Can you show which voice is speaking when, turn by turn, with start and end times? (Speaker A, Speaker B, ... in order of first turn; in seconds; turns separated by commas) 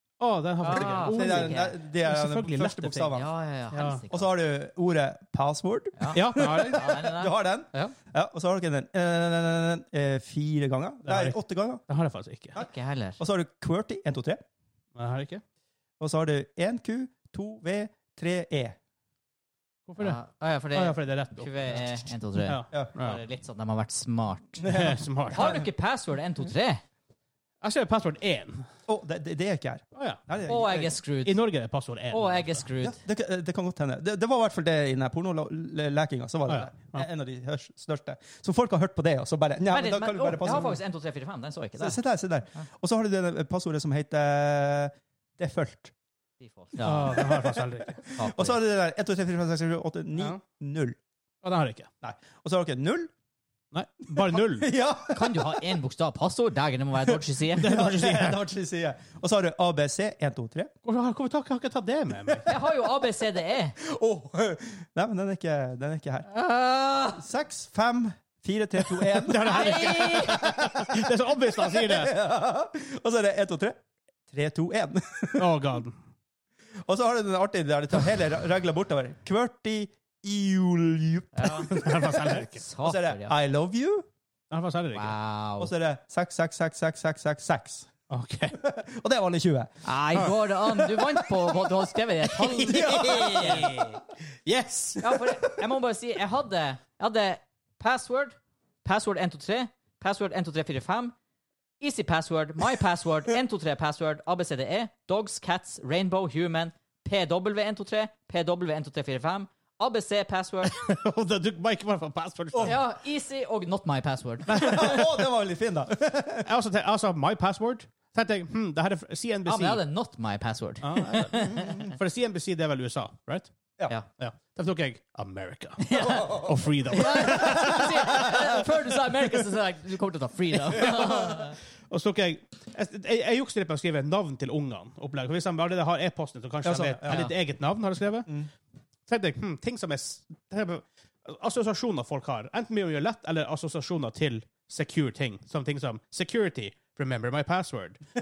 Speaker A: 0.2-3.1, Speaker B: 0.6-1.8, Speaker C: 0.6-3.3, Speaker B: 3.1-4.3, Speaker A: 3.7-4.0, Speaker C: 4.1-11.8, Speaker B: 6.0-7.4, Speaker A: 6.1-7.0, Speaker A: 11.0-11.4, Speaker A: 11.9-12.6, Speaker B: 12.6-13.2, Speaker C: 13.2-14.4, Speaker A: 14.9-15.4, Speaker C: 16.0-18.8, Speaker A: 19.9-20.2, Speaker B: 20.0-24.7, Speaker A: 20.7-23.2, Speaker C: 24.6-25.7, Speaker A: 24.6-25.5, Speaker B: 25.3-26.8, Speaker A: 27.6-28.6, Speaker C: 28.9-30.9, Speaker B: 30.4-31.4, Speaker A: 31.2-32.6, Speaker B: 32.1-33.0, Speaker C: 32.8-40.8, Speaker A: 36.5-37.1, Speaker B: 39.6-42.0, Speaker C: 41.8-45.9, Speaker B: 46.4-47.2, Speaker A: 46.8-48.0, Speaker C: 46.8-51.0, Speaker B: 48.1-48.6, Speaker A: 51.4-51.9, Speaker C: 52.0-53.1, Speaker A: 53.7-54.7, Speaker C: 54.1-55.6, Speaker B: 55.1-57.7, Speaker A: 57.5-58.4, Speaker C: 57.6-60.7, Speaker A: 60.8-62.5, Speaker C: 62.3-62.7, Speaker B: 62.5-63.7, Speaker C: 63.8-66.3, Speaker B: 66.3-67.2, Speaker C: 67.1-73.8, Speaker A: 68.9-72.1, Speaker B: 69.4-70.4, Speaker C: 74.3-75.6, Speaker A: 75.3-76.0, Speaker C: 76.8-84.0, Speaker B: 81.3-81.7, Speaker A: 81.6-82.6, Speaker B: 82.5-83.3, Speaker A: 84.5-85.1, Speaker B: 84.9-85.7, Speaker C: 85.6-87.9, Speaker A: 88.1-88.6, Speaker C: 88.5-89.7, Speaker B: 89.8-93.9, Speaker A: 90.1-91.3, Speaker A: 92.2-95.2, Speaker C: 92.7-93.3, Speaker B: 95.0-101.1, Speaker B: 101.8-110.8, Speaker A: 110.7-112.8, Speaker B: 112.6-115.0, Speaker C: 114.5-116.5, Speaker A: 114.5-115.0, Speaker A: 116.4-119.8, Speaker B: 119.5-121.9, Speaker A: 120.8-123.5, Speaker A: 124.2-128.0, Speaker B: 125.8-131.6, Speaker C: 125.9-128.6, Speaker A: 130.7-138.3, Speaker C: 136.6-137.3, Speaker A: 139.1-148.0